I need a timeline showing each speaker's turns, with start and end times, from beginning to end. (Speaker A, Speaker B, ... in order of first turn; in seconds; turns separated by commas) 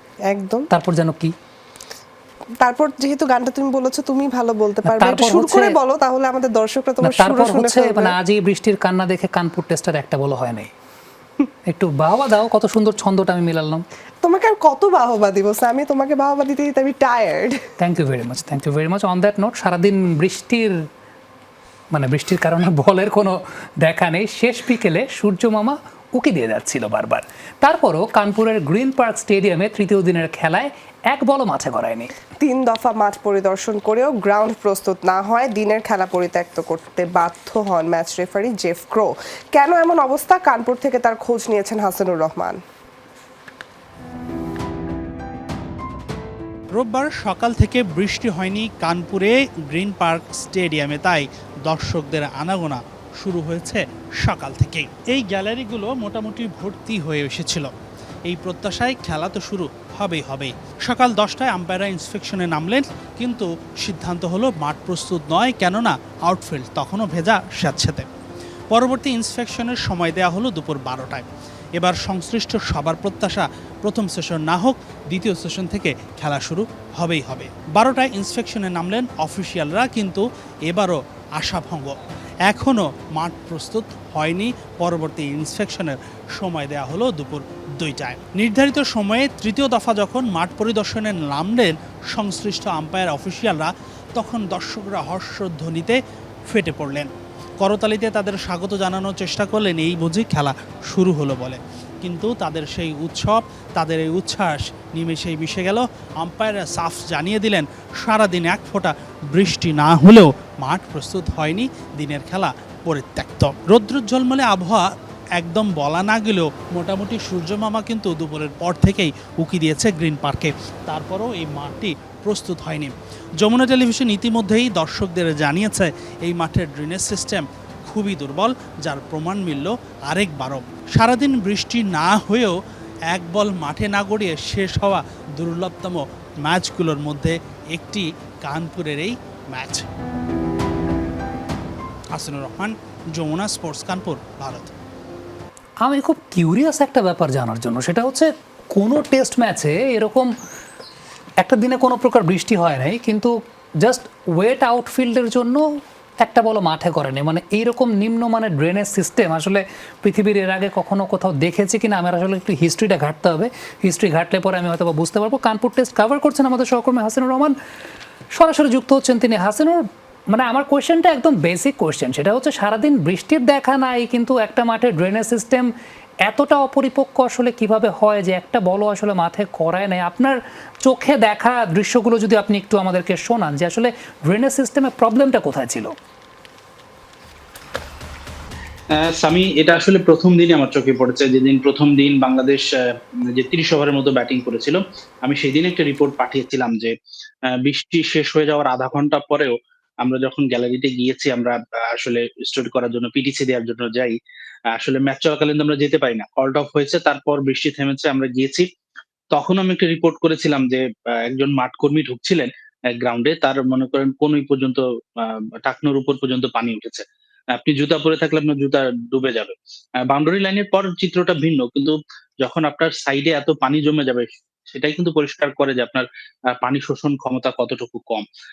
Speaker A: 0.3-0.7, Speaker B: 0.7-1.2, Speaker A: 2.6-8.2, Speaker B: 4.9-5.8, Speaker B: 7.0-10.7, Speaker B: 11.7-13.8, Speaker A: 14.2-17.6, Speaker B: 17.9-20.7, Speaker B: 21.9-32.0, Speaker A: 32.4-42.6, Speaker C: 46.7-57.7, Speaker C: 58.3-68.0, Speaker C: 68.7-71.2, Speaker C: 71.8-81.9, Speaker C: 82.5-96.0, Speaker C: 96.5-97.1, Speaker C: 97.6-114.9, Speaker C: 115.4-132.6, Speaker C: 133.1-139.8, Speaker C: 142.1-144.7, Speaker B: 145.8-150.3, Speaker B: 151.4-153.3, Speaker B: 153.8-155.6, Speaker B: 156.2-167.5, Speaker B: 168.4-169.8, Speaker B: 170.3-175.7, Speaker B: 176.2-180.3, Speaker B: 180.9-185.9, Speaker D: 189.0-192.7, Speaker D: 193.3-196.9, Speaker D: 197.6-204.2, Speaker D: 204.8-208.7, Speaker D: 209.3-217.1, Speaker D: 217.6-219.6, Speaker D: 220.1-228.3